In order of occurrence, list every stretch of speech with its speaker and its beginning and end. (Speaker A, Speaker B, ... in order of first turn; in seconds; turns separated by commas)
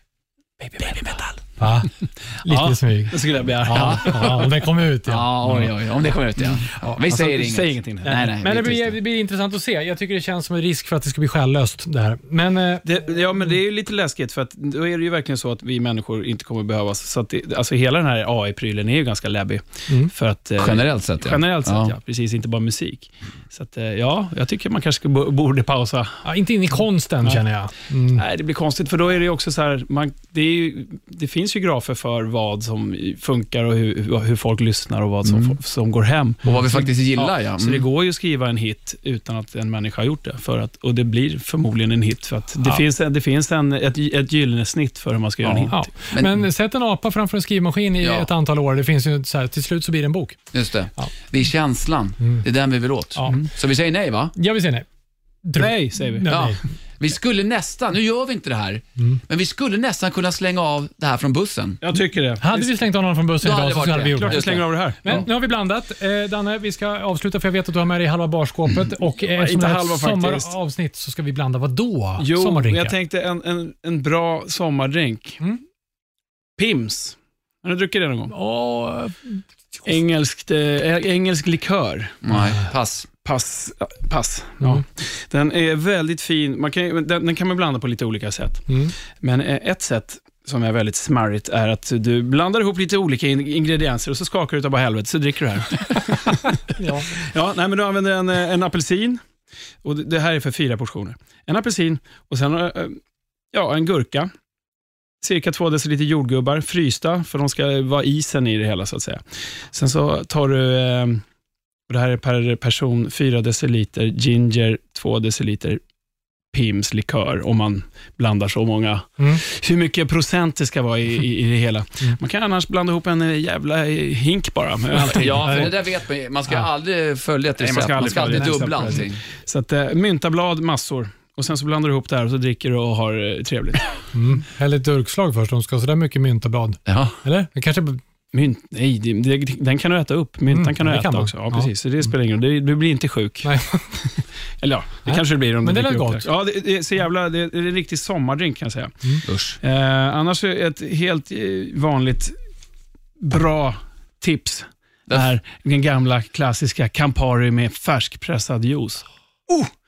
Speaker A: 0.6-5.7, Speaker B: 0.8-1.4, Speaker C: 2.5-4.5, Speaker B: 3.7-4.4, Speaker B: 5.0-9.0, Speaker C: 6.9-8.2, Speaker A: 8.0-12.8, Speaker C: 12.8-26.2, Speaker B: 20.6-21.9, Speaker A: 26.2-28.2, Speaker C: 28.1-45.9, Speaker B: 35.2-35.6, Speaker B: 36.4-37.9, Speaker A: 45.4-50.4, Speaker B: 46.1-46.4, Speaker B: 48.0-48.3, Speaker B: 50.5-54.3, Speaker A: 53.1-53.5, Speaker A: 54.4-54.9, Speaker A: 55.4-56.6, Speaker C: 55.6-56.4, Speaker B: 56.2-61.8, Speaker C: 61.8-62.7, Speaker A: 62.4-73.0, Speaker B: 63.4-65.2, Speaker C: 64.2-65.2, Speaker C: 69.2-70.5, Speaker C: 72.2-75.4, Speaker C: 76.6-78.3, Speaker A: 78.3-79.9, Speaker C: 79.8-82.2, Speaker B: 82.2-83.1, Speaker A: 82.3-82.6, Speaker C: 83.2-99.2, Speaker A: 88.7-88.9, Speaker A: 96.8-97.1, Speaker C: 99.8-103.0, Speaker C: 103.5-104.3, Speaker C: 105.2-109.2, Speaker C: 109.7-111.2, Speaker C: 111.9-115.8, Speaker C: 116.5-125.7, Speaker B: 125.0-129.2, Speaker A: 125.4-125.7, Speaker C: 127.6-133.9, Speaker A: 128.2-128.7, Speaker A: 134.1-138.0, Speaker B: 136.8-137.2, Speaker C: 138.3-143.5, Speaker A: 140.5-141.7, Speaker A: 143.4-143.8, Speaker C: 144.6-148.9, Speaker A: 145.1-146.3, Speaker B: 149.2-149.6, Speaker C: 149.6-152.3, Speaker C: 153.2-159.7